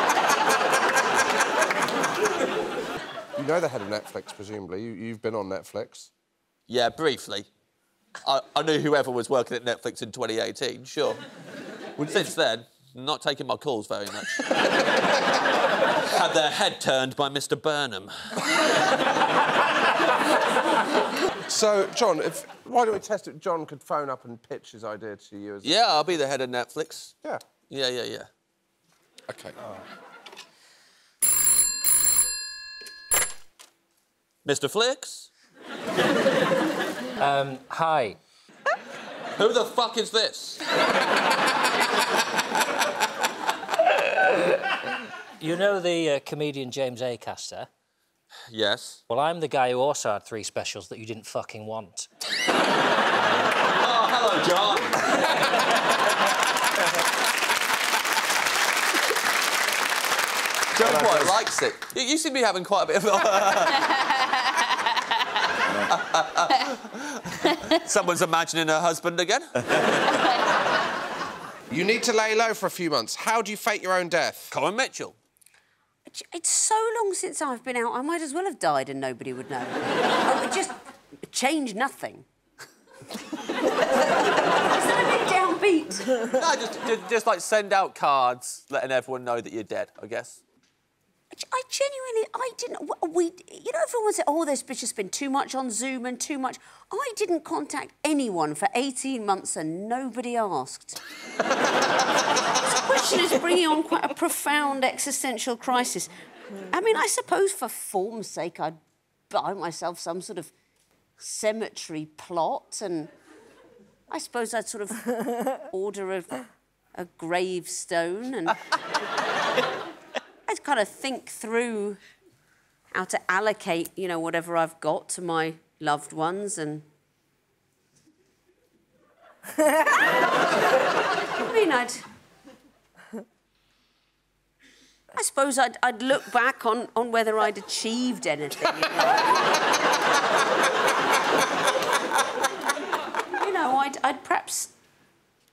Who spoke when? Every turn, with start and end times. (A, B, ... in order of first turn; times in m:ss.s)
0:03.4-0:06.1 A
0:06.7-0:07.5 B
0:08.2-0:11.2 B
0:12.0-0:14.6 B
0:16.1-0:18.4 B
0:21.5-0:25.8 A
0:25.6-0:27.1 B
0:27.7-0:28.3 B
0:29.3-0:29.6 A
0:34.4-0:35.3 B
0:37.2-0:38.2 C
0:39.4-0:40.6 B
0:45.4-0:47.7 C
0:48.5-0:49.0 B
0:49.1-0:52.1 C
0:53.7-0:55.5 B
1:00.7-1:04.4 B
1:05.9-1:10.0 B
1:11.7-1:14.5 A
1:14.5-1:15.2 B
1:16.1-1:20.7 D
1:21.3-1:22.2 D
1:23.9-1:26.3 D
1:26.4-1:30.4 B
1:31.3-1:41.0 D
1:42.6-1:46.1 D
1:46.7-1:48.8 D
1:49.3-1:50.5 D
1:51.2-1:53.1 D
1:54.1-1:55.1 D
1:55.6-1:56.4 D
1:57.0-1:58.6 D
2:00.5-2:02.0 D
2:02.9-2:06.9 D
2:11.4-2:12.0 D
2:15.2-2:19.4 D
2:23.4-2:24.7 D